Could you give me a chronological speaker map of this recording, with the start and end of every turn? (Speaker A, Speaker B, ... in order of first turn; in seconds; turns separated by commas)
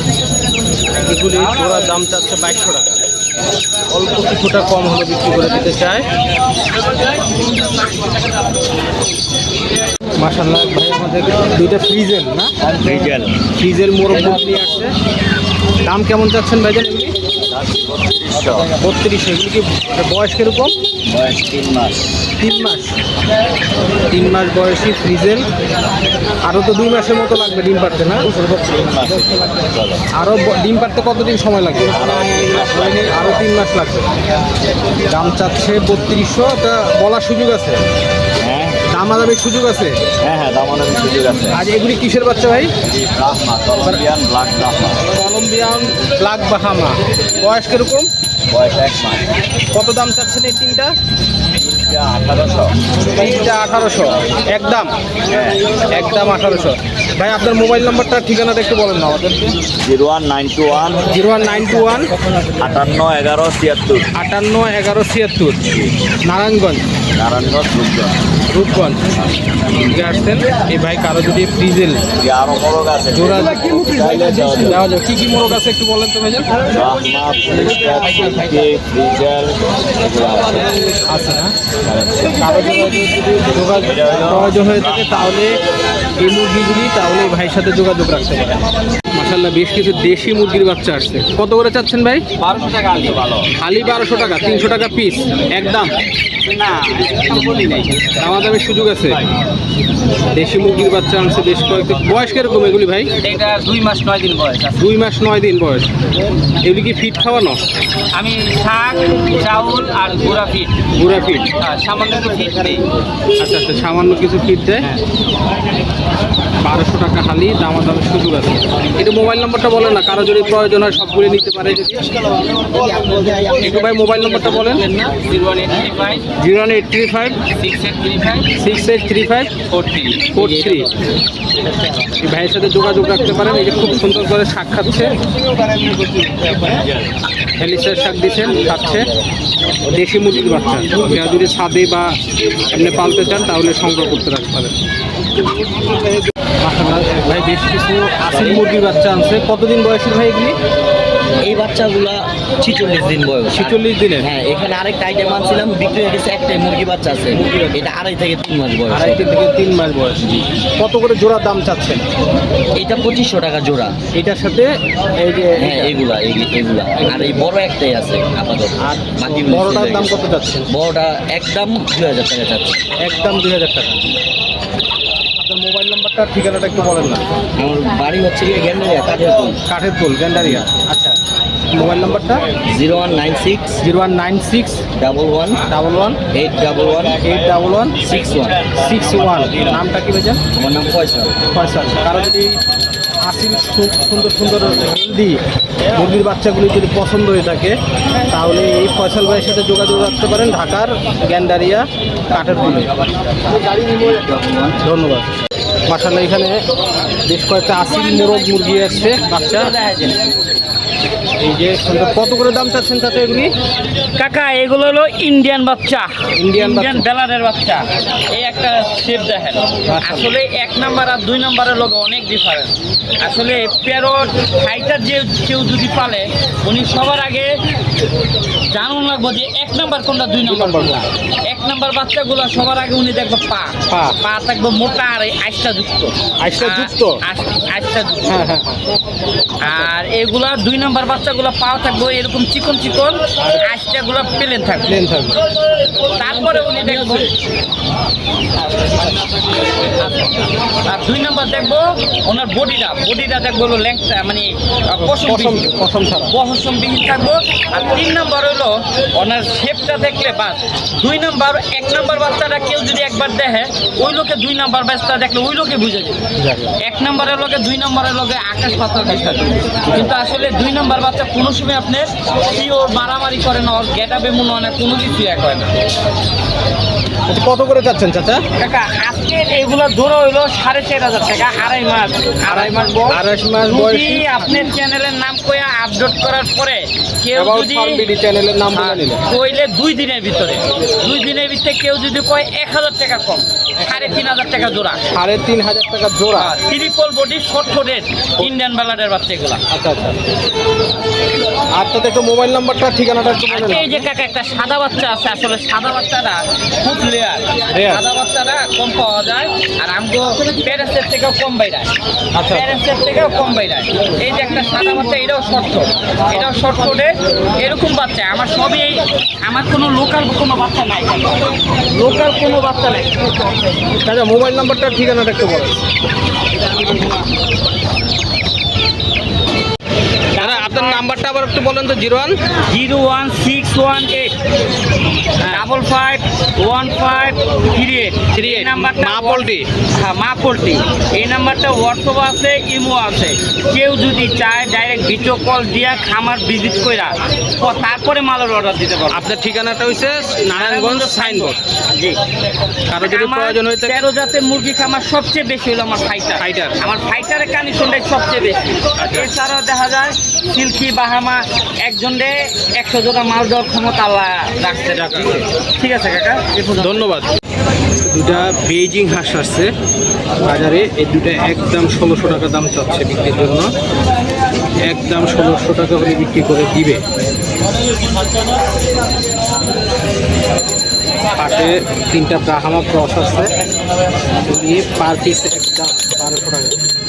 Speaker A: 1.0-3.0, Speaker A: 3.9-6.1, Speaker A: 10.2-12.5, Speaker B: 12.6-13.3, Speaker A: 13.5-14.9, Speaker A: 15.8-17.1, Speaker B: 17.4-18.7, Speaker A: 18.7-20.8, Speaker B: 21.1-22.1, Speaker A: 22.4-23.0, Speaker A: 24.1-25.5, Speaker A: 26.4-28.3, Speaker B: 28.2-30.1, Speaker A: 30.1-32.0, Speaker B: 31.9-33.5, Speaker A: 33.0-34.1, Speaker A: 35.0-37.8, Speaker B: 38.4-38.9, Speaker A: 38.9-40.0, Speaker B: 40.2-41.6, Speaker A: 41.5-42.7, Speaker B: 42.9-45.0, Speaker A: 45.1-48.1, Speaker B: 48.5-49.3, Speaker A: 49.7-50.9, Speaker B: 51.6-52.8, Speaker A: 53.1-54.9, Speaker B: 55.3-55.6, Speaker A: 55.9-59.6, Speaker B: 59.8-61.0, Speaker A: 61.0-62.1, Speaker B: 62.6-64.1, Speaker A: 64.2-66.8, Speaker B: 67.1-68.2, Speaker A: 68.5-69.1, Speaker A: 69.7-72.0, Speaker B: 72.2-74.8, Speaker A: 73.2-73.9, Speaker A: 74.6-76.5, Speaker B: 76.7-80.8, Speaker A: 80.8-81.5, Speaker B: 81.8-82.5, Speaker A: 82.4-85.6, Speaker B: 83.6-85.2, Speaker A: 86.2-92.2, Speaker C: 92.4-93.3, Speaker A: 93.5-96.0, Speaker C: 96.5-98.1, Speaker A: 98.2-99.2, Speaker A: 100.3-103.1, Speaker C: 103.2-104.8, Speaker A: 104.8-105.9, Speaker A: 106.6-107.6, Speaker C: 108.1-112.9, Speaker A: 111.0-111.5, Speaker A: 113.4-114.9, Speaker A: 116.6-122.1, Speaker C: 122.5-126.3, Speaker A: 123.5-124.9, Speaker A: 126.4-127.4, Speaker C: 127.5-128.5, Speaker A: 128.5-129.6, Speaker C: 129.7-130.8, Speaker A: 130.3-130.9, Speaker A: 132.1-135.1, Speaker A: 137.6-139.1, Speaker A: 139.9-142.2, Speaker A: 142.7-144.8, Speaker A: 146.6-150.6, Speaker D: 151.4-159.2, Speaker A: 153.5-154.3, Speaker A: 157.3-157.8, Speaker A: 158.9-162.0, Speaker D: 162.8-163.9, Speaker A: 164.1-166.0, Speaker D: 165.6-170.1, Speaker A: 167.0-167.5, Speaker A: 168.8-170.7, Speaker D: 170.7-172.8, Speaker A: 173.0-174.1, Speaker A: 175.4-177.2, Speaker D: 177.6-179.6, Speaker A: 179.7-181.2, Speaker A: 181.7-182.5, Speaker D: 182.7-183.8, Speaker A: 183.7-184.9, Speaker D: 185.0-185.6, Speaker A: 185.6-186.2, Speaker D: 186.3-187.2, Speaker A: 187.2-188.0, Speaker D: 188.0-188.8, Speaker A: 188.7-190.4, Speaker D: 190.6-191.3, Speaker A: 191.5-192.6, Speaker A: 193.2-195.4, Speaker A: 195.9-197.8, Speaker A: 198.3-202.9, Speaker D: 203.5-204.8, Speaker A: 204.8-205.3, Speaker A: 205.9-206.6, Speaker A: 207.2-209.7, Speaker C: 209.5-210.3, Speaker A: 211.4-213.5, Speaker C: 214.2-227.6, Speaker A: 216.3-217.0, Speaker A: 219.9-220.3, Speaker C: 228.7-238.4, Speaker A: 230.4-231.0, Speaker A: 233.9-234.2, Speaker A: 236.4-237.2, Speaker A: 238.3-238.8, Speaker C: 239.6-245.0, Speaker A: 239.6-239.9, Speaker A: 243.4-243.7, Speaker A: 244.8-245.4, Speaker C: 246.1-247.3, Speaker C: 250.0-266.2, Speaker A: 255.0-256.4, Speaker A: 266.4-266.8, Speaker C: 266.8-275.7, Speaker A: 277.3-278.4, Speaker C: 278.6-288.1, Speaker A: 282.5-284.4, Speaker A: 287.4-289.2, Speaker C: 288.7-295.1, Speaker A: 295.1-296.6, Speaker C: 296.3-299.6, Speaker A: 299.7-300.2, Speaker A: 301.7-304.0, Speaker C: 303.5-311.9, Speaker A: 307.7-308.0, Speaker A: 312.3-312.7, Speaker C: 312.5-323.4, Speaker A: 324.0-325.8, Speaker C: 330.3-331.1, Speaker A: 330.4-332.4, Speaker C: 332.7-334.4, Speaker A: 335.4-335.7, Speaker C: 335.4-349.3, Speaker A: 338.3-339.7, Speaker A: 349.1-351.6, Speaker C: 350.5-352.2, Speaker A: 352.9-354.0, Speaker C: 352.9-366.9, Speaker A: 356.4-356.8, Speaker A: 359.0-359.3, Speaker A: 364.9-365.4, Speaker A: 366.7-367.3, Speaker A: 368.0-369.7, Speaker A: 370.4-373.7, Speaker A: 374.9-377.0, Speaker A: 381.3-383.5, Speaker A: 384.4-386.8